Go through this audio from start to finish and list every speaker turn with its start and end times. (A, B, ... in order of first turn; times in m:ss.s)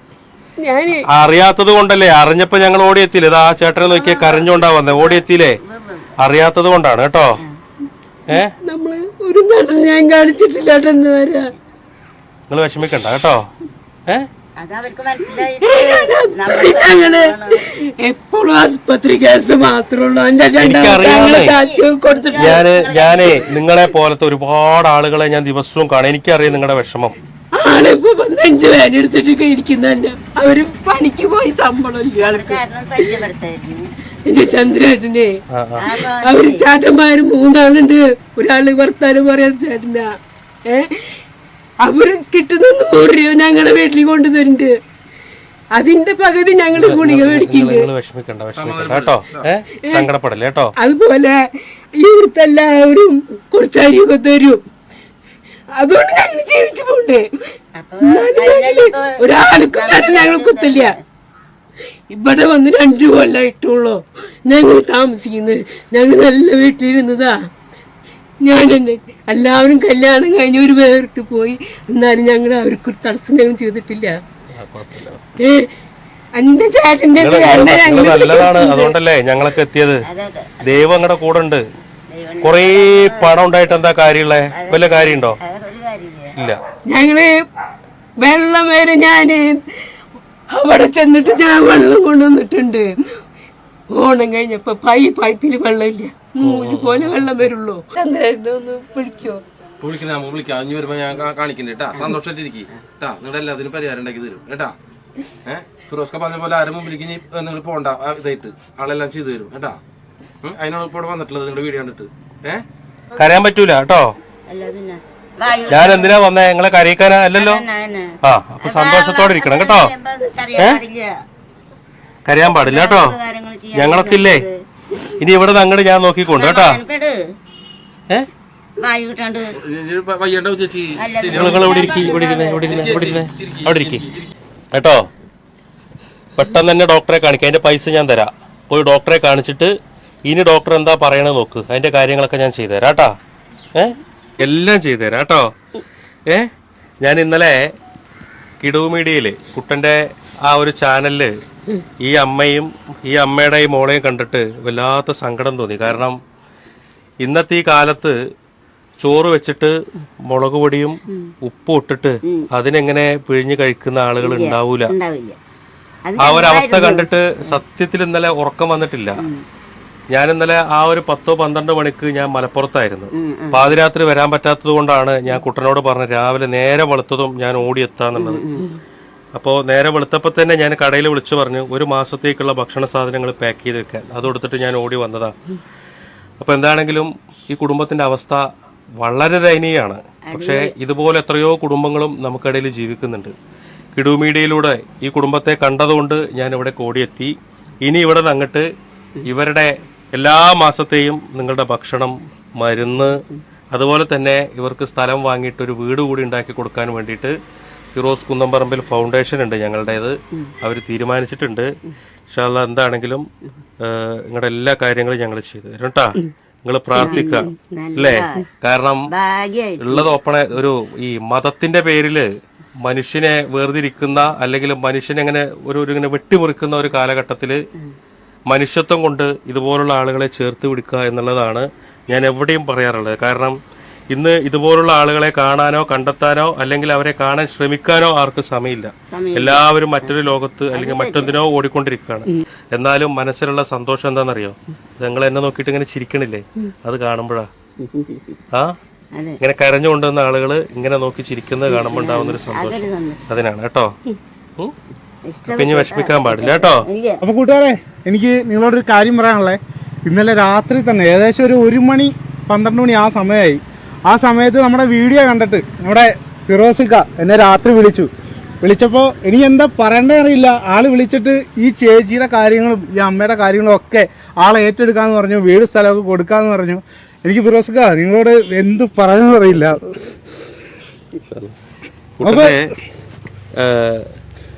0:00.6-0:01.0 A
0:01.1-0:05.6 B
0:03.9-0:04.4 C
0:04.9-0:06.1 C
0:06.2-0:07.4 B
0:08.3-0:08.5 B
0:08.3-0:11.5 A
0:12.5-0:13.4 B
0:14.6-0:17.6 C
0:15.6-0:17.3 A
0:18.0-0:22.4 A
0:20.6-0:21.6 B
0:21.1-0:23.5 C
0:22.3-0:27.2 B
0:27.6-0:32.4 A
0:32.2-0:33.9 C
0:34.3-0:35.3 A
0:35.5-0:35.9 B
0:35.8-0:36.7 C
0:35.9-0:40.0 A
0:40.7-0:41.2 A
0:41.8-0:44.7 A
0:45.7-0:47.9 A
0:46.7-0:50.7 B
0:48.6-0:49.5 D
0:50.8-0:54.6 A
0:55.8-0:57.2 A
0:57.8-1:01.0 C
0:58.0-1:00.8 A
1:02.1-1:07.3 A
1:08.4-1:14.2 A
1:14.5-1:15.2 B
1:15.4-1:15.7 A
1:16.4-1:19.0 A
1:17.2-1:20.0 B
1:20.1-1:20.8 C
1:20.6-1:21.6 B
1:22.1-1:23.4 C
1:22.4-1:25.4 B
1:24.5-1:26.3 C
1:26.9-1:27.3 A
1:28.2-1:29.9 A
1:30.5-1:33.2 A
1:33.9-1:39.4 A
1:36.4-1:37.5 B
1:39.8-1:44.7 D
1:45.4-1:49.8 D
1:50.4-1:52.6 D
1:53.2-1:54.1 B
1:54.5-1:56.3 C
1:55.7-1:57.6 B
1:57.3-2:01.1 C
1:58.2-1:59.9 B
2:00.6-2:00.8 B
2:02.2-2:03.2 B
2:02.6-2:04.6 C
2:03.7-2:04.4 B
2:05.2-2:06.8 B
2:06.3-2:07.2 C
2:08.8-2:09.5 C
2:09.6-2:14.3 D
2:11.0-2:12.7 C
2:11.3-2:14.0 B
2:14.7-2:15.1 B
2:16.4-2:19.7 B
2:20.3-2:23.2 B
2:23.7-2:25.5 B
2:27.0-2:27.6 B
2:28.6-2:31.3 B
2:32.0-2:36.2 B
2:37.2-2:38.2 B
2:39.0-2:44.9 B
2:44.2-2:45.4 C
2:46.0-2:47.6 C
2:46.2-2:49.2 B
2:50.1-2:58.6 B
2:53.2-2:53.7 C
2:58.2-2:58.8 C
2:59.4-3:05.3 B
3:06.4-3:08.4 B
3:09.0-3:13.3 B
3:10.3-3:10.7 C
3:13.9-3:18.6 B
3:19.2-3:23.2 B
3:23.7-3:27.4 B
3:27.9-3:31.7 B
3:32.3-3:33.2 B
3:33.8-3:39.1 B
3:37.0-3:38.4 C
3:39.1-3:40.1 C
3:39.8-3:42.3 B
3:42.8-3:47.6 B
3:48.5-3:53.6 B
3:54.1-4:07.5 B
3:59.1-4:00.2 C
4:00.7-4:01.4 C
4:07.8-4:08.4 C
4:08.5-4:08.8 B
4:09.1-4:09.4 C
4:09.4-4:13.9 B
4:11.7-4:13.2 C
4:15.2-4:17.2 C
4:15.5-4:16.9 B
4:17.2-4:28.1 E
4:28.6-4:40.0 E
4:41.2-4:41.5 B
4:42.2-4:42.7 B
4:42.2-4:42.6 E
4:43.6-4:44.1 B